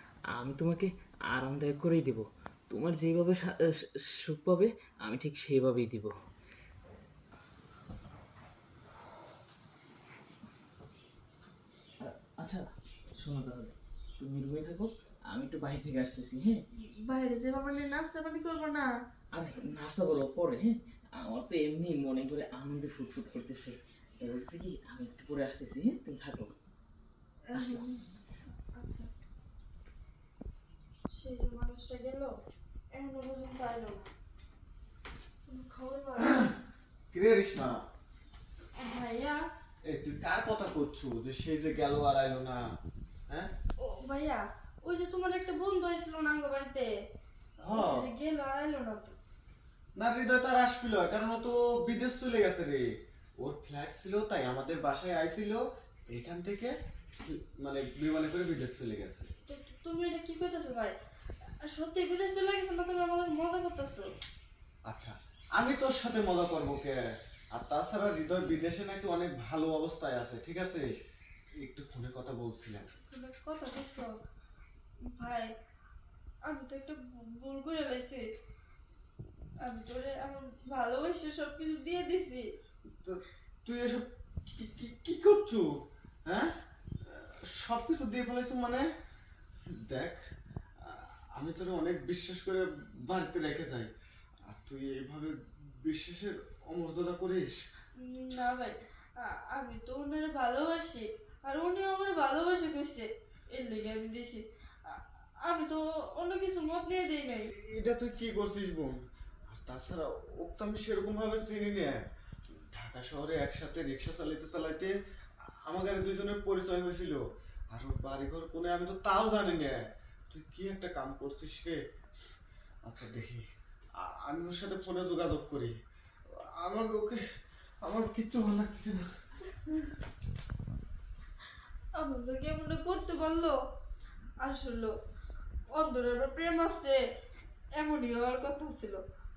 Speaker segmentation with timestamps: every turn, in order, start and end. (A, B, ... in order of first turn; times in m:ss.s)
0:00.3-0:06.1 A
0:12.0-0:12.7 A
0:13.2-0:16.6 A
0:17.1-0:18.9 B
0:19.3-0:26.5 A
0:27.5-0:29.1 B
0:27.5-0:27.8 A
0:31.1-0:32.4 B
0:32.9-0:34.1 B
0:35.5-0:36.5 B
0:37.1-0:37.8 C
0:38.8-0:39.4 B
0:39.8-0:42.7 C
0:43.8-0:46.9 B
0:47.6-0:49.2 B
0:47.6-0:48.0 C
0:50.0-0:52.9 C
0:53.4-0:56.7 C
0:57.2-0:59.3 C
0:59.5-1:00.9 B
1:01.6-1:04.1 B
1:04.9-1:07.0 C
1:07.5-1:10.9 C
1:11.6-1:12.9 C
1:13.1-1:14.1 B
1:15.1-1:15.5 B
1:16.5-1:18.2 B
1:19.6-1:22.4 B
1:23.0-1:25.7 C
1:26.2-1:26.5 C
1:27.0-1:28.8 C
1:29.7-1:30.2 C
1:30.8-1:33.9 C
1:34.5-1:37.6 C
1:38.0-1:47.5 B
1:47.5-1:52.0 C
1:52.6-1:54.9 C
1:55.6-2:01.8 C
2:02.8-2:03.4 C
2:04.0-2:05.7 C
2:06.4-2:07.2 C
2:07.8-2:09.1 C
2:12.0-2:13.6 B
2:14.4-2:14.9 B
2:15.7-2:17.0 B
2:17.8-2:19.0 B